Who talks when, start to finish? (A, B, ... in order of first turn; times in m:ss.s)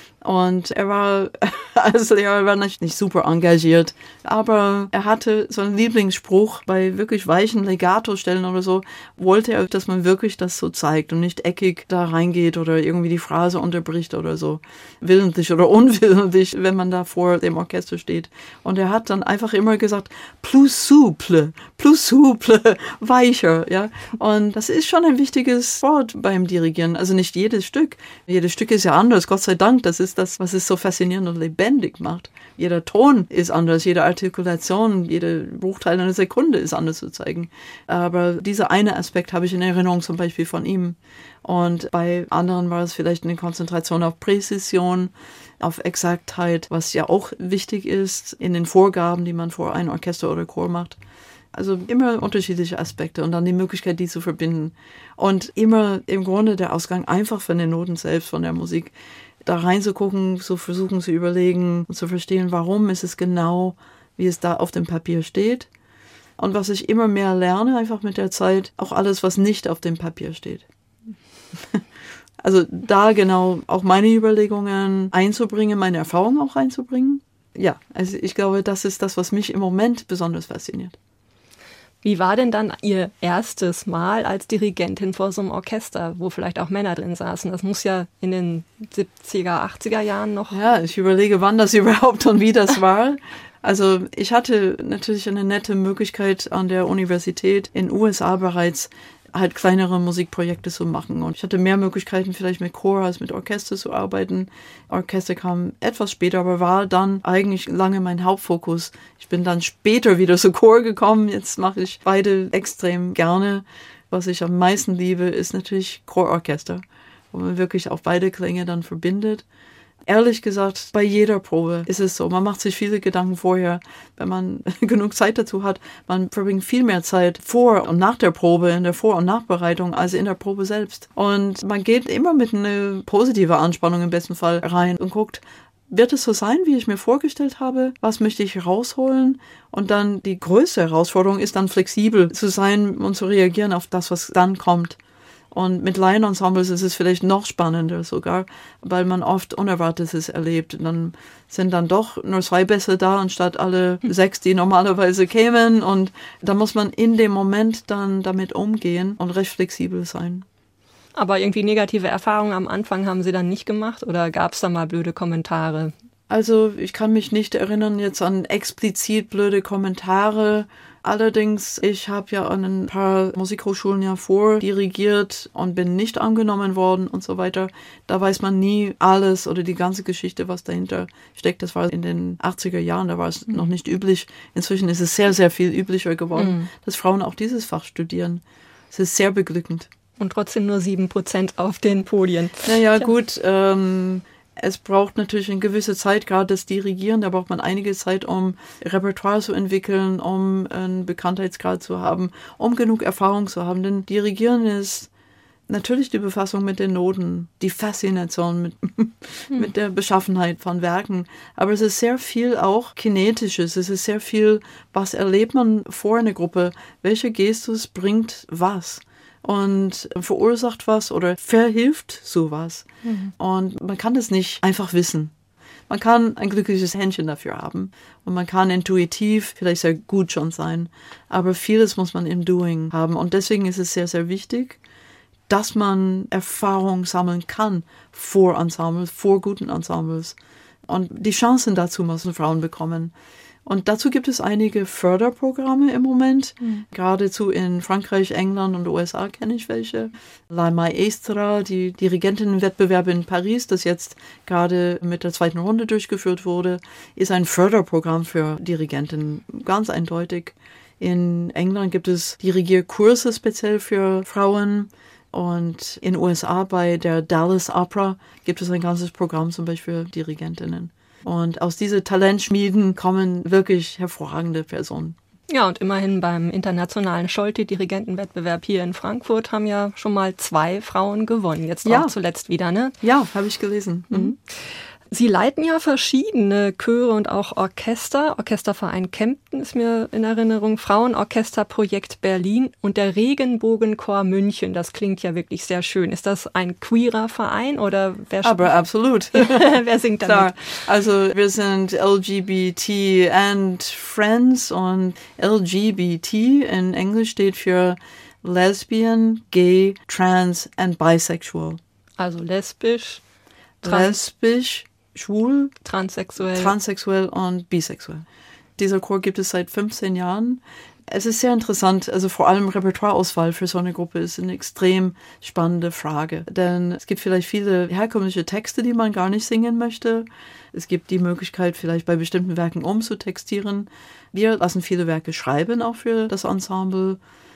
0:00.2-0:51.0 A
0:51.5-1:05.7 A
1:06.4-1:10.6 A
1:12.4-1:20.9 A
1:22.0-1:30.6 B
1:30.5-1:59.4 A
2:00.1-2:25.0 A
2:25.5-2:40.4 A
2:41.2-2:45.9 B
2:46.3-3:09.9 A
3:06.4-3:06.7 B
3:10.2-3:12.8 B
3:12.6-3:25.1 A
3:25.7-3:45.3 A
3:43.0-3:43.3 B
3:45.9-3:54.8 A
3:55.5-4:00.4 A
4:00.9-4:03.1 A
4:03.6-4:35.2 A
4:35.5-4:42.9 B
4:41.8-4:42.1 A
4:43.0-4:44.3 A
4:44.1-4:44.4 B
4:45.1-4:58.7 B
4:58.4-5:11.8 A
4:59.3-5:00.8 B
5:12.2-5:13.2 B
5:13.8-5:15.7 A
5:13.8-5:14.2 B
5:15.8-5:16.7 B
5:16.5-5:18.2 A
5:18.8-5:37.2 A